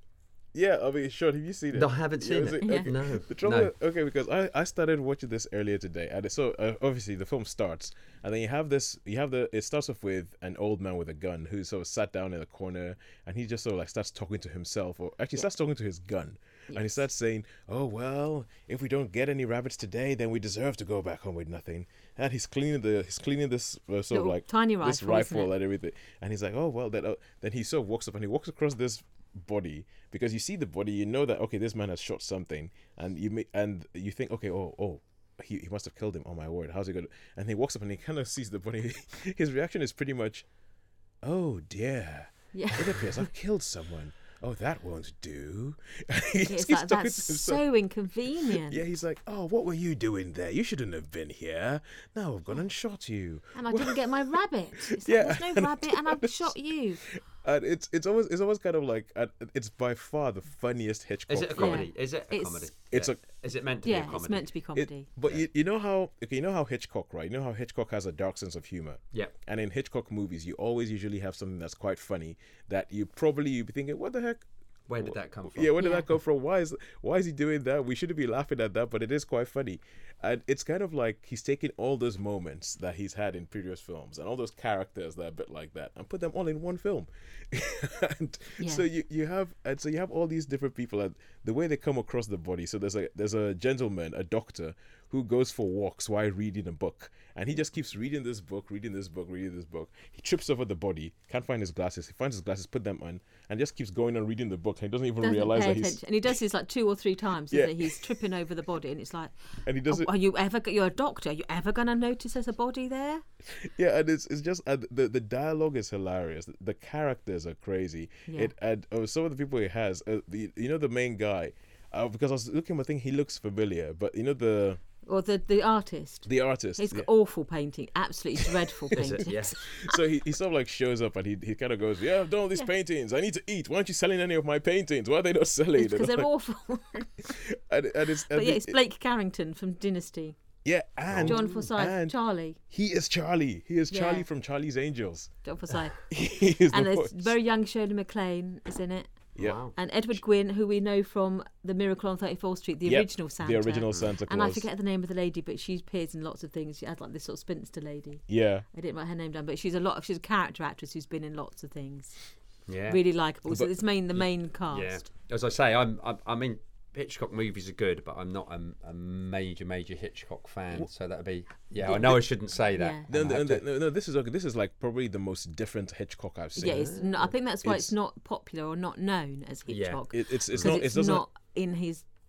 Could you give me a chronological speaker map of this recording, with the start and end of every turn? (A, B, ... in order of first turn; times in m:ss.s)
0:00.5-0:40.5 A
0:01.7-0:03.7 B
0:02.6-0:02.9 C
0:16.7-0:17.0 C
0:24.1-0:25.5 C
0:41.2-0:47.6 A
0:42.5-0:43.2 C
0:46.5-0:48.8 C
0:48.5-0:54.1 A
0:53.5-0:57.1 C
0:55.0-1:01.8 A
1:01.3-1:04.5 B
1:01.6-1:02.7 C
1:02.9-1:03.2 A
1:03.8-1:05.1 C
1:04.8-1:14.5 A
1:14.9-1:15.7 B
1:15.0-1:46.0 A
1:15.8-1:16.1 C
1:45.2-1:53.2 C
1:47.5-1:48.0 A
1:49.6-1:50.1 A
1:53.5-2:04.8 A
2:05.0-2:09.9 C
2:06.2-2:07.1 A
2:09.0-2:09.6 B
2:09.1-2:16.3 A
2:15.8-2:17.3 C
2:17.2-2:18.8 A
2:18.3-2:20.4 C
2:20.6-2:25.3 A
2:21.1-2:21.6 B
2:21.3-2:22.6 C
2:23.9-2:24.3 C
2:25.4-2:45.0 C
2:26.1-2:27.3 A
2:29.4-2:29.7 B
2:32.8-2:34.6 A
2:38.3-2:38.6 A
2:42.6-2:43.0 B
2:43.5-2:43.7 A
2:44.2-2:53.6 B
2:51.8-2:52.2 A
2:51.9-2:52.2 C
2:52.7-2:53.0 C
2:53.1-2:56.9 A
2:56.6-3:02.0 C
2:56.6-2:57.3 B
2:57.6-2:57.9 A
2:59.7-3:00.8 B
3:00.1-3:01.2 A